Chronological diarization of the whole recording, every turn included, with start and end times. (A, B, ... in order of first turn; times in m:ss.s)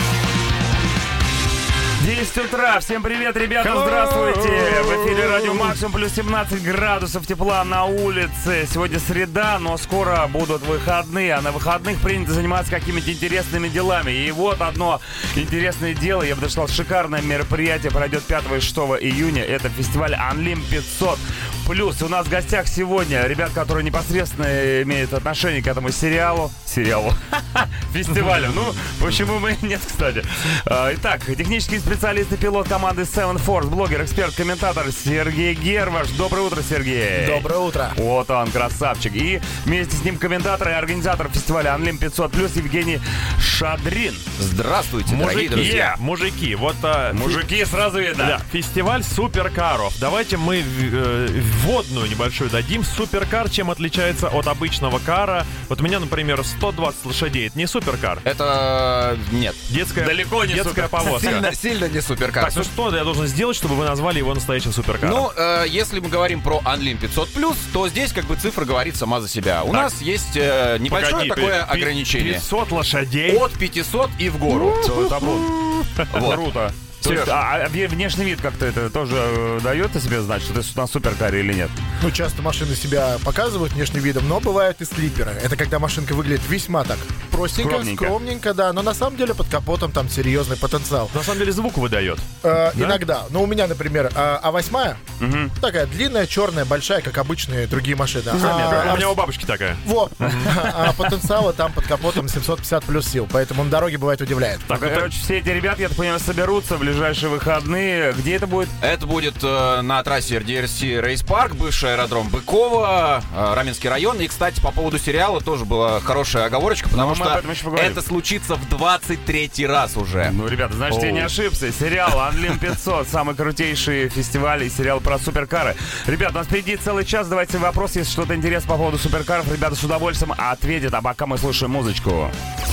0:02.0-0:44.2 A
0:03.6-0:05.7 B
0:37.2-0:38.0 C
0:44.4-0:45.9 D
0:45.1-0:47.5 B
0:45.5-0:46.0 A
0:47.1-0:48.4 A
0:48.2-0:58.2 B
0:58.2-0:59.6 D
0:59.7-1:01.5 B
1:00.0-1:01.4 A
1:01.0-1:02.7 D
1:02.4-1:05.3 B
1:05.0-1:12.5 D
1:09.7-1:09.9 B
1:10.9-1:13.4 B
1:13.3-1:14.9 D
1:14.6-1:21.7 A
1:14.7-1:15.1 B
1:16.1-1:16.4 D
1:17.0-1:17.4 D
1:22.0-1:31.2 C
1:27.6-1:28.2 A
1:31.1-1:33.0 B
1:32.4-1:35.0 C
1:35.2-1:35.5 A
1:35.6-1:39.2 C
1:38.3-1:40.6 B
1:39.8-1:44.7 C
1:44.7-1:48.7 A
1:44.7-1:45.1 B
1:48.8-2:00.3 D
1:56.9-1:58.0 A
2:00.2-2:12.3 A
2:00.9-2:01.3 B